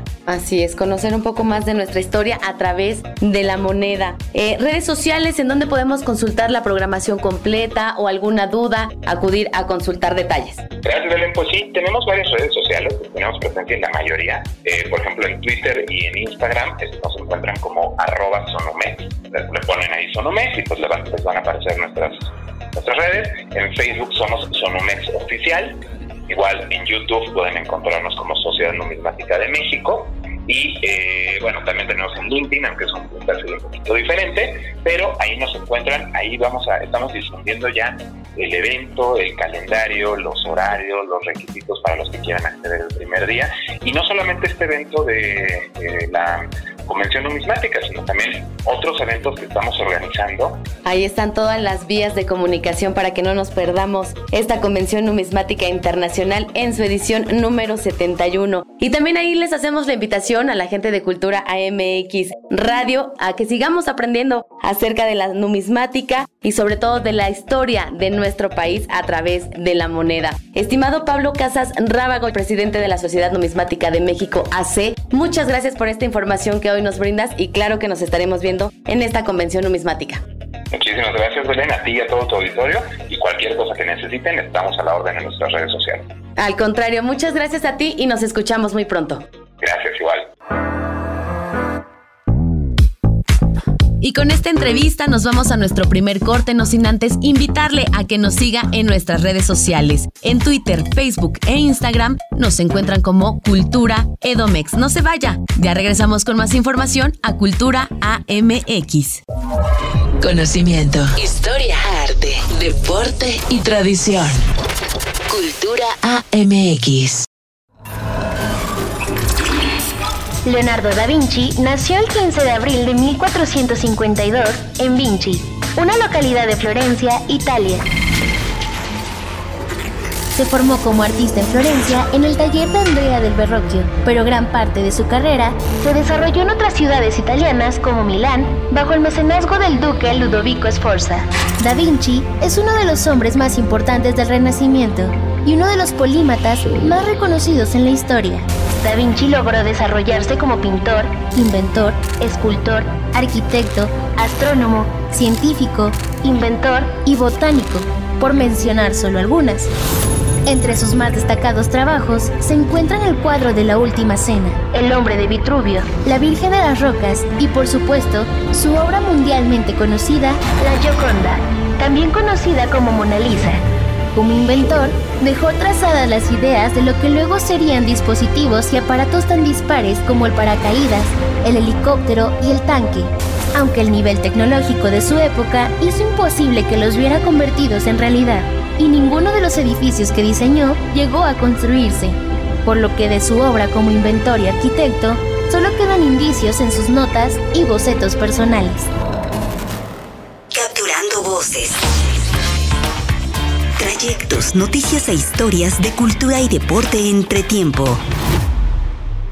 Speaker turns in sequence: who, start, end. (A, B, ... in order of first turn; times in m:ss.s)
0:00.3-0:10.6 A
0:10.8-0:50.6 B
0:50.8-1:20.2 A
1:20.7-1:26.0 B
1:26.4-1:29.2 A
1:29.6-1:30.3 B
1:34.0-1:49.2 A
1:50.2-1:54.4 C
1:55.3-1:57.3 C
2:00.4-2:07.9 D
2:10.3-2:39.7 D
2:40.5-3:18.9 D
3:20.5-3:21.8 E
3:23.8-3:28.0 E